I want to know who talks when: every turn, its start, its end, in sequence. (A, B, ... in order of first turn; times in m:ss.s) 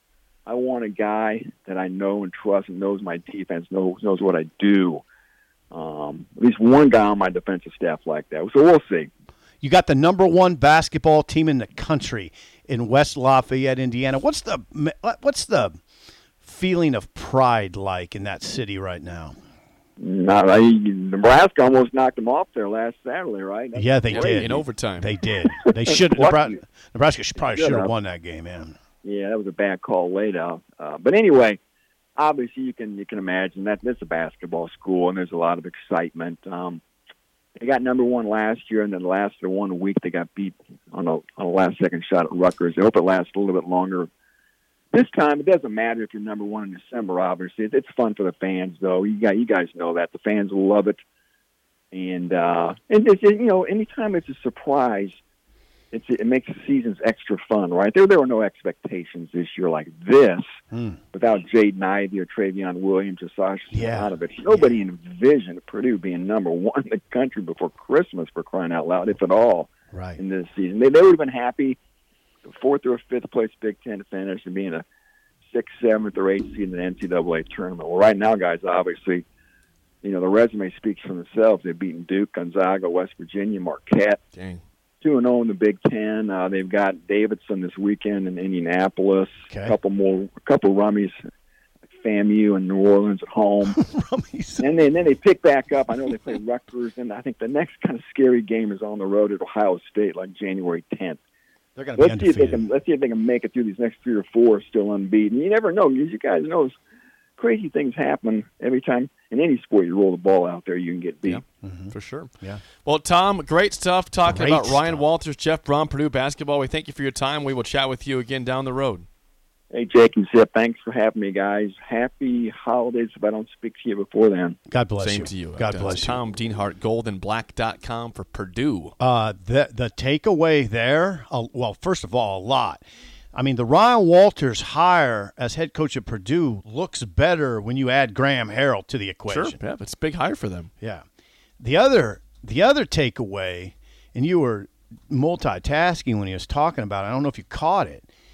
0:00.5-0:05.0 A
0:05.7-0:09.1 A
0:09.6-0:15.8 B
0:16.4-0:19.3 B
0:20.0-0:24.5 A
0:23.7-0:28.8 B
0:24.1-0:25.2 C
0:25.7-0:26.6 A
0:27.4-0:27.9 A
0:29.0-0:31.6 A
0:32.2-0:36.8 A
0:37.6-0:44.1 A
0:44.9-0:51.0 A
0:51.9-0:55.2 A
0:55.9-1:00.6 A
1:00.7-1:01.0 B
1:01.1-1:11.8 A
1:03.7-1:04.8 B
1:09.9-1:10.2 B
1:12.4-1:14.8 A
1:15.5-1:19.2 A
1:20.0-1:24.2 A
1:24.4-1:24.6 C
1:25.0-1:31.2 A
1:29.5-1:29.8 B
1:31.9-1:33.8 A
1:33.7-1:34.6 B
1:34.6-1:41.2 A
1:41.8-1:42.6 B
1:42.0-1:46.8 A
1:47.4-1:51.4 A
1:51.2-1:52.3 C
1:51.6-1:52.6 B
1:52.8-1:59.1 C
1:54.3-1:55.0 B
1:59.7-2:04.6 A
2:04.7-2:06.2 B
2:05.0-2:08.9 C
2:09.0-2:12.8 B
2:13.3-2:19.6 B
2:19.3-2:20.7 C
2:21.6-2:28.0 B